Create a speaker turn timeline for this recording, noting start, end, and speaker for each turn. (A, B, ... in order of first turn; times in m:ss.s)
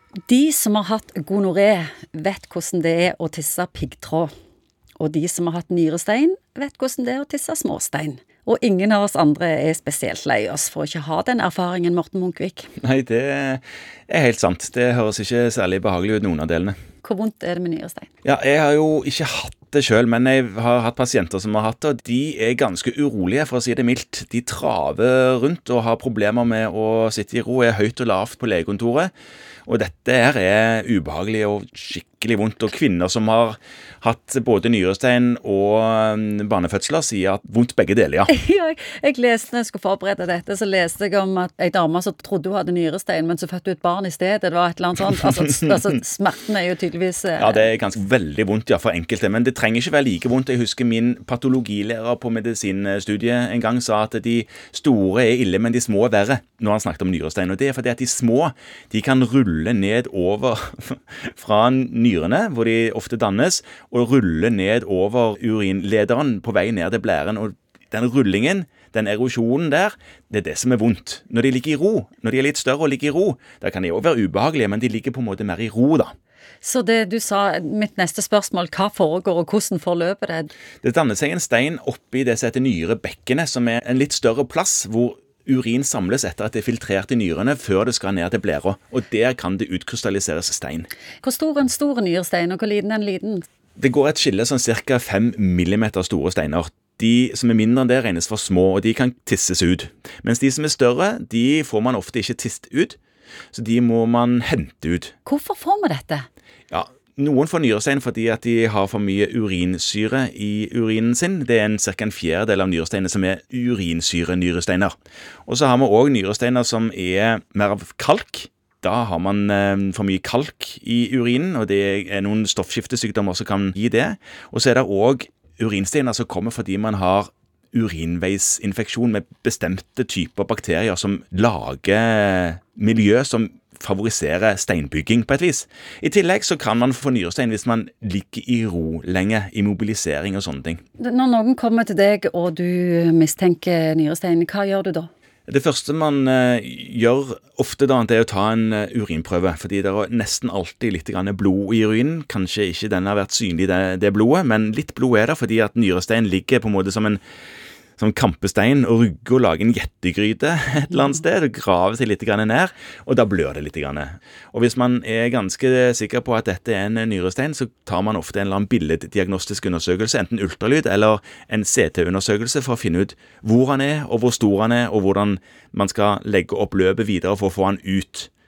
0:00.3-0:04.3 A
0:05.0-0:12.7 A
0:12.8-0:16.8 B
0:17.0-0:18.1 A
0:18.2-0:29.1 B
0:29.7-0:38.3 B
0:38.3-0:47.7 A
0:47.4-1:16.1 B
1:16.6-1:20.5 A
1:20.8-1:30.9 B
1:31.2-1:33.4 A
1:33.8-1:43.0 B
1:43.5-1:45.2 B
1:45.2-1:46.3 A
1:46.7-1:55.0 B
1:55.5-2:20.8 B
2:21.0-2:25.1 A
2:25.5-2:37.2 B
2:38.0-2:58.3 B